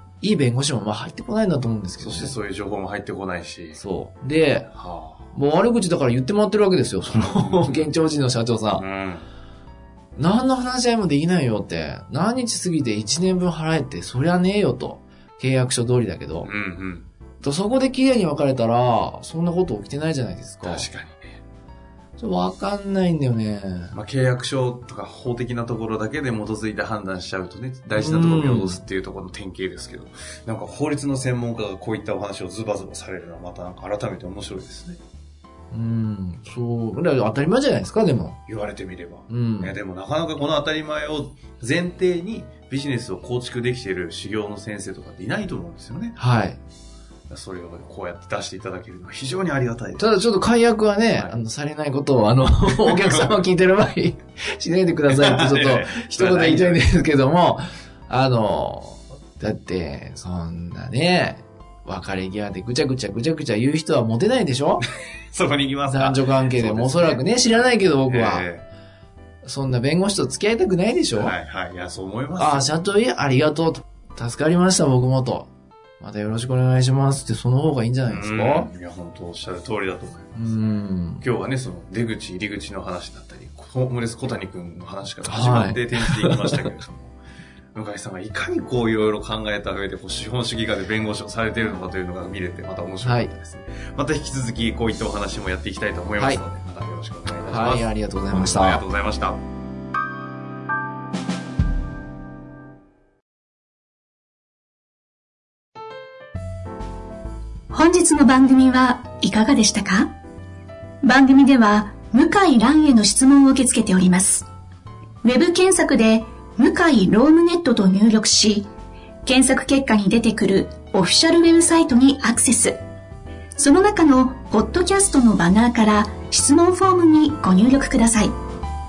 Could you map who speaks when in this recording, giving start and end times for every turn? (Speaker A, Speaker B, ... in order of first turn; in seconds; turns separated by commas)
Speaker A: 0.2-2.4, Speaker B: 2.0-3.8, Speaker A: 3.8-4.7, Speaker B: 4.7-5.3, Speaker A: 5.3-8.8, Speaker B: 7.1-7.9, Speaker B: 8.7-9.3, Speaker A: 10.2-16.5, Speaker B: 16.4-17.1, Speaker A: 17.4-20.9, Speaker B: 20.6-21.4, Speaker A: 22.2-23.9, Speaker B: 23.9-35.0, Speaker A: 28.0-28.8, Speaker A: 35.7-38.4, Speaker B: 38.5-46.2, Speaker A: 39.3-39.7, Speaker A: 46.2-46.6, Speaker B: 47.3-50.3, Speaker A: 50.0-64.8, Speaker B: 52.7-53.4, Speaker B: 55.1-56.9, Speaker B: 64.8-68.7, Speaker A: 65.8-68.5, Speaker A: 69.4-71.3, Speaker B: 71.1-72.7, Speaker A: 72.4-75.5, Speaker A: 76.0-78.7, Speaker B: 78.1-80.7, Speaker A: 80.4-81.2, Speaker B: 81.2-87.1, Speaker A: 85.2-86.6, Speaker B: 87.7-99.4, Speaker A: 93.0-93.3, Speaker A: 97.5-98.8, Speaker C: 107.7-110.1, Speaker C: 111.0-114.5, Speaker C: 115.2-118.7, Speaker C: 119.2-122.8, Speaker C: 123.6-128.4